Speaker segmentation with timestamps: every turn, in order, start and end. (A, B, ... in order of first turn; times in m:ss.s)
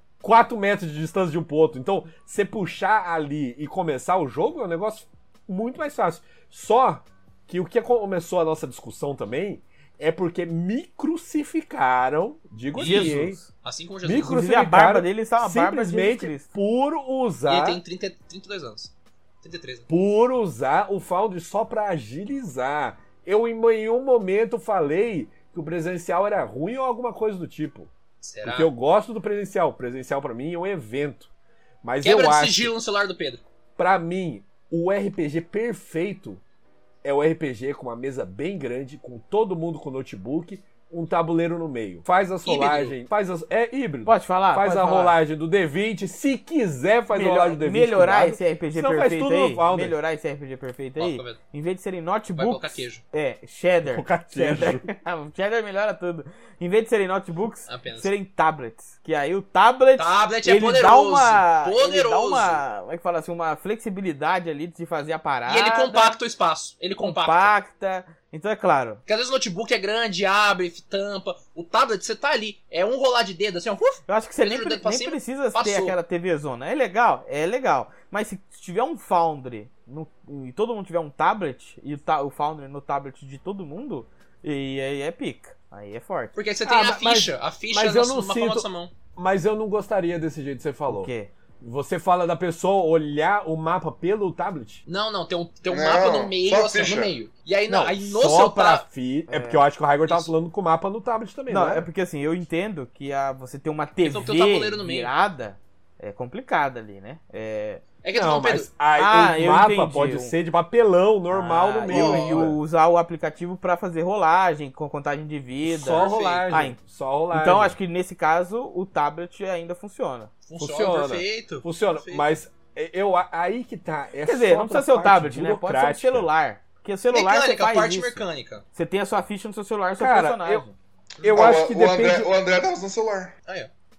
0:00.2-0:13.4 A
0:12.7-0:13.5 B
0:12.7-0:14.4 C
0:14.0-0:17.8 A
0:14.2-0:16.5 B
0:17.5-0:19.9 C
0:19.9-0:27.9 A
0:28.2-0:28.7 C
0:28.4-0:31.3 A
0:31.8-0:32.7 A
0:32.0-0:33.4 C
0:33.8-0:36.4 A
0:37.0-0:50.0 A
0:42.4-0:42.9 C
0:44.0-0:45.2 B
0:47.1-1:06.2 B
0:51.0-0:51.4 C
0:52.4-0:53.0 C
0:53.9-0:54.8 A
0:57.7-0:58.1 C
1:00.0-1:02.6 C
1:05.5-1:07.5 C
1:07.0-1:09.0 B
1:09.0-1:16.0 C
1:14.1-1:26.3 B
1:26.3-1:28.9 C
1:26.6-1:34.8 A
1:30.9-1:31.3 B
1:34.9-1:38.8 C
1:35.7-1:37.1 D
1:37.7-1:41.9 A
1:39.3-1:39.6 B
1:41.5-1:47.8 B
1:44.0-1:45.1 C
1:48.0-1:48.7 C
1:48.1-1:52.6 A
1:49.0-1:50.3 B
1:51.3-1:56.8 B
1:51.9-1:52.5 C
1:55.6-1:57.8 A
1:55.9-1:56.4 C
1:57.3-2:00.3 B
2:00.4-2:02.2 C
2:00.6-2:06.3 A
2:04.2-2:08.2 B
2:07.1-2:08.6 C
2:08.7-2:10.7 B
2:10.0-2:10.6 A
2:11.2-2:12.3 A
2:11.3-2:13.3 D